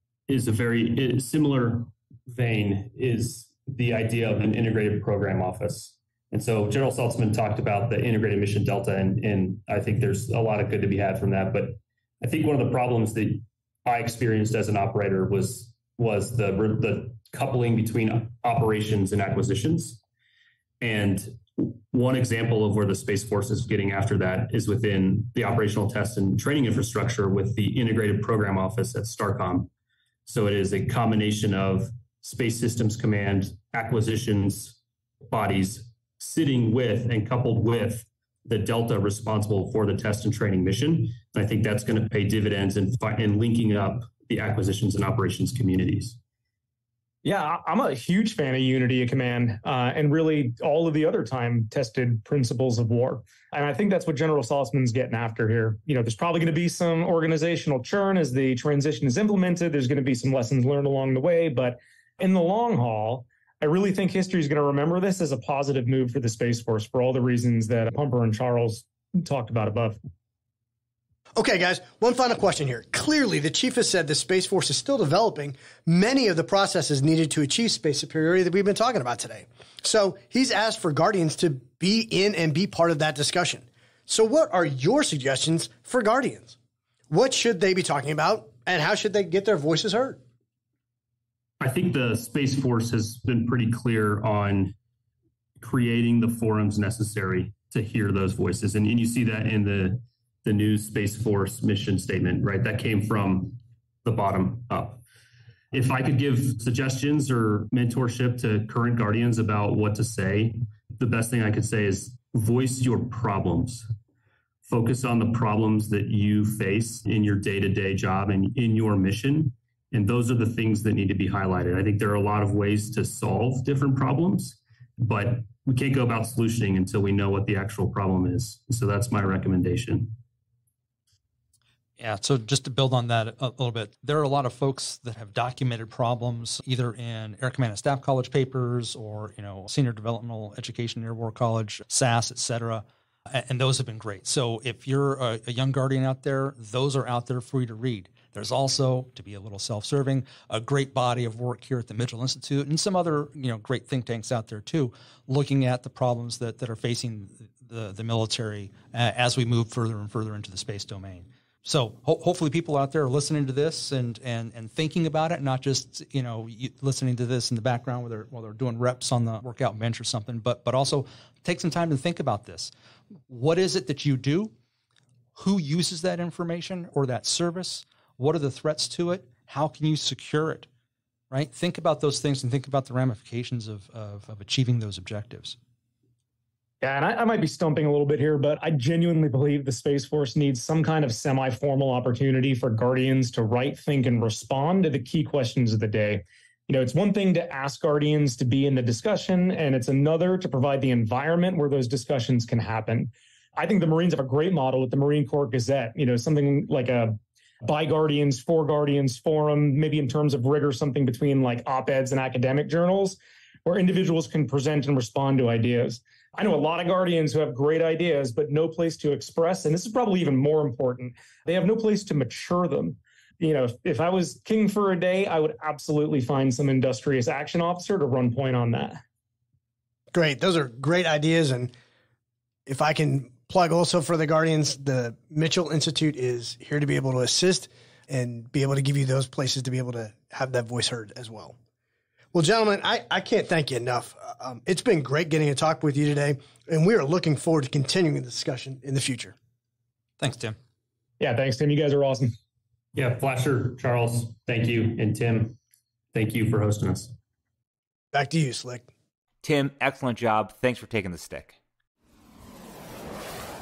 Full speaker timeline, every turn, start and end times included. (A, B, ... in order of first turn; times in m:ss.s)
0:00.3-0:20.0 A
0:20.8-0:29.7 A
0:30.3-0:34.8 A
0:35.3-0:46.2 A
0:47.2-1:10.0 B
1:11.4-1:26.6 C
1:27.1-1:30.2 C
1:31.6-1:34.7 A
1:35.6-1:45.0 A
1:45.7-1:53.9 A
1:54.7-2:10.2 A
2:12.0-2:52.7 D
2:53.3-2:54.5 D
2:55.4-3:00.7 D
3:01.3-3:05.6 D
3:06.8-3:49.0 B
3:50.1-3:51.7 C
3:52.7-4:01.6 C
4:02.3-4:09.4 C
4:10.2-4:10.6 D
4:11.2-4:12.4 B
4:13.0-4:15.6 A
4:16.1-4:17.2 A
4:18.1-4:18.9 C
4:19.4-4:21.6 E